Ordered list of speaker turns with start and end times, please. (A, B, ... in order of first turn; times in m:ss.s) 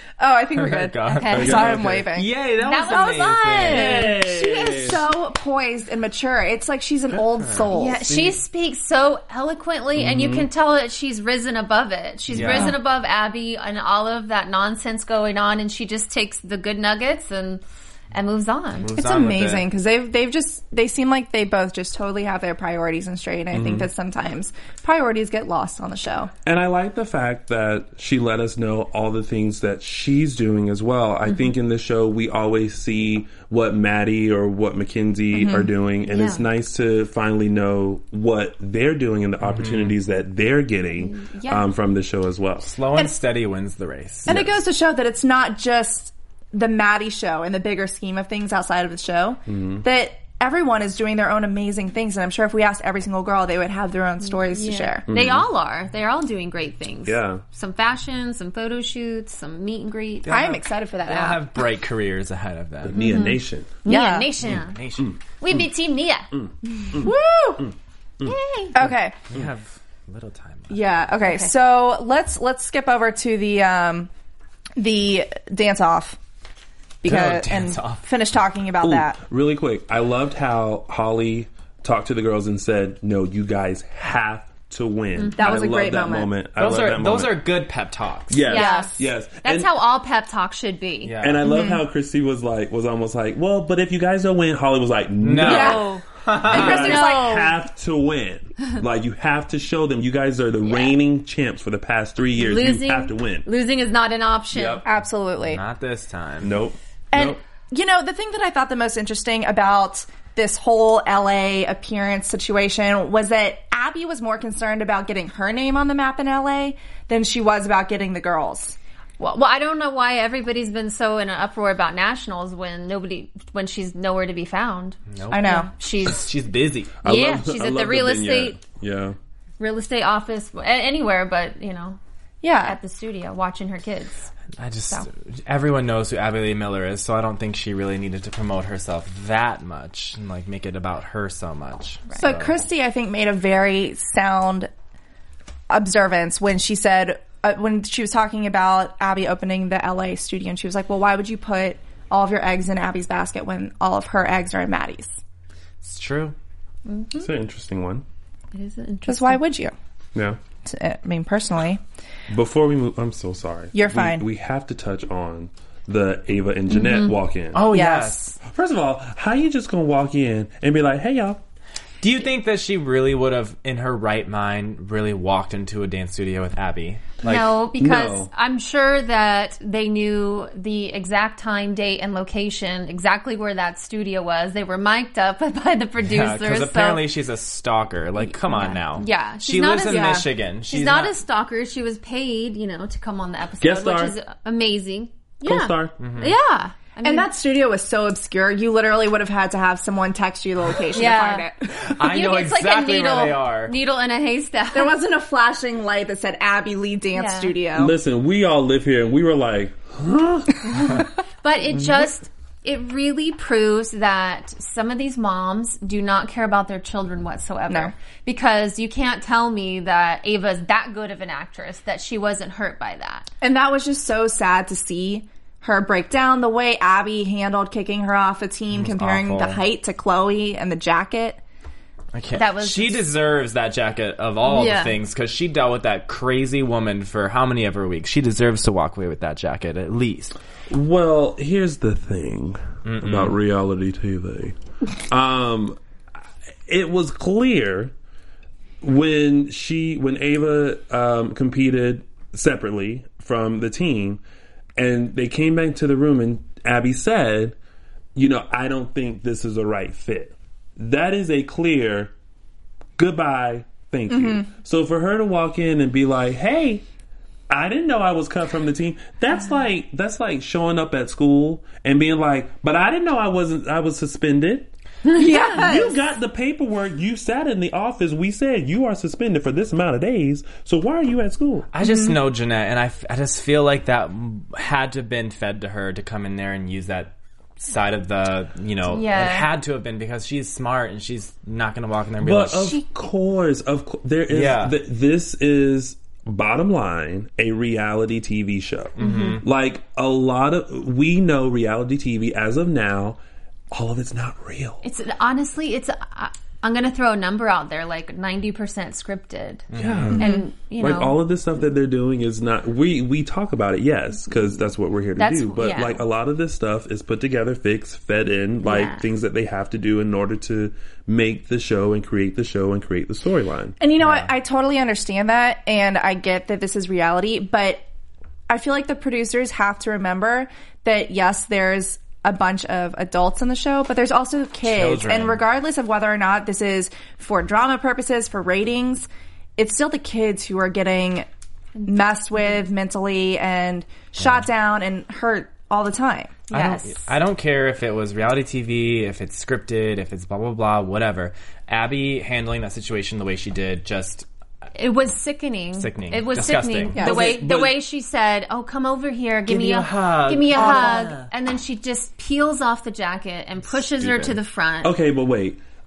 0:00.2-0:02.3 A
0:00.6-0:04.1 B
0:01.1-0:01.6 C
0:01.3-0:02.1 D
0:02.6-0:04.1 C
0:02.9-0:08.0 A
0:03.7-0:05.0 D
0:07.1-0:08.4 B
0:07.7-0:18.9 C
0:10.0-0:10.5 D
0:12.3-0:12.8 B
0:12.4-0:12.8 A
0:18.8-0:19.6 B
0:18.9-0:26.3 A
0:23.5-0:23.9 D
0:26.4-0:42.7 D
0:35.3-0:35.7 A
0:36.1-0:36.4 C
0:39.4-0:40.0 B
0:41.0-0:41.6 C
0:42.6-0:44.5 B
0:44.3-0:55.0 A
0:49.5-0:49.8 D
0:54.2-1:00.3 C
0:55.1-0:55.4 D
0:57.0-0:57.4 D
1:00.2-1:03.0 B
1:00.3-1:01.6 A
1:02.8-1:03.8 D
1:03.0-1:04.8 C
1:03.8-1:04.3 A
1:04.5-1:05.1 B
1:04.5-1:05.2 D
1:05.4-1:06.3 C
1:06.3-1:08.4 D
1:06.9-1:07.7 A
1:08.2-1:08.7 C
1:08.7-1:09.2 A
1:09.3-1:11.1 B
1:10.7-1:14.1 A
1:11.2-1:11.5 C
1:14.8-1:16.2 A
1:17.0-1:19.2 A
1:17.0-1:18.1 B
1:18.8-1:27.4 D
1:25.2-1:25.6 C
1:25.4-1:26.3 A
1:26.6-1:28.5 B
1:28.3-1:29.7 D
1:28.5-1:31.1 C
1:28.5-1:29.0 A
1:31.0-1:31.4 B
1:31.2-1:35.9 D
1:31.4-1:31.8 A
1:35.2-1:37.0 B
1:35.4-1:37.5 A
1:35.5-1:36.0 C
1:36.4-1:43.5 D
1:36.6-1:37.5 C
1:42.4-1:44.8 C
1:44.5-1:44.8 D
1:44.8-1:45.6 A
1:45.4-1:46.5 B
1:46.4-1:47.4 D
1:47.1-1:58.8 A
1:59.2-2:06.3 C
2:05.1-2:06.9 B
2:05.3-2:05.7 A
2:07.0-2:09.2 D
2:07.0-2:08.6 C
2:09.6-2:12.0 C
2:12.4-2:12.8 A
2:12.6-2:14.3 C
2:14.6-2:22.5 B
2:22.2-2:24.7 A
2:25.7-2:35.1 A
2:35.8-2:36.3 B
2:36.9-2:37.3 C
2:37.1-2:38.0 D
2:38.5-2:39.4 C
2:39.0-2:39.7 A
2:40.6-2:41.8 A
2:42.3-2:47.6 D
2:43.7-2:44.2 A
2:46.7-2:47.1 C
2:47.5-2:48.3 B
2:47.6-2:48.4 A
2:48.4-2:51.4 D
2:52.0-2:57.5 B
2:57.2-3:07.1 C
2:57.3-2:58.3 D
3:06.0-3:11.1 B
3:08.3-3:17.3 C
3:09.8-3:10.3 A
3:13.6-3:14.1 D
3:15.4-3:16.0 D
3:16.0-3:16.3 B
3:17.0-3:21.7 A
3:20.9-3:21.5 C
3:21.7-3:23.7 B
3:22.0-3:25.0 C
3:24.7-3:27.9 A
3:27.1-3:27.6 C
3:27.7-3:30.9 D
3:31.4-3:43.3 C
3:43.4-3:51.4 A
3:48.7-3:49.6 B
3:52.1-4:00.3 B
3:52.3-3:53.1 C
3:54.4-3:55.0 C
4:00.7-4:04.6 D
4:02.8-4:03.4 B
4:05.1-4:05.8 D
4:06.7-4:07.9 D
4:08.8-4:14.2 D
4:14.8-4:17.5 D
4:18.1-4:22.1 D
4:23.0-4:26.8 D
4:24.1-4:24.5 A
4:27.5-4:34.7 D
4:35.1-4:36.0 A
4:35.4-4:41.7 D
4:41.7-4:52.8 B
4:41.8-4:42.2 A
4:48.9-4:49.5 C
4:52.2-5:03.2 D
4:54.3-4:54.7 B
4:59.0-4:59.4 B
4:59.0-4:59.4 C
5:03.7-5:04.8 D
5:04.8-5:11.2 C
5:09.7-5:10.2 B
5:09.8-5:23.8 D
5:10.2-5:10.4 A
5:15.2-5:16.0 C
5:18.6-5:19.0 C
5:23.8-5:27.8 A
5:24.0-5:24.3 B
5:28.5-5:41.3 A
5:34.6-5:35.4 B
5:41.8-5:46.4 A
5:46.5-5:54.2 B
5:46.5-5:47.0 C
5:54.7-6:04.9 C
5:55.7-5:57.7 B
5:56.9-5:57.4 A
5:59.5-6:01.2 B
6:00.5-6:01.2 A
6:03.7-6:04.4 B
6:04.8-6:05.6 D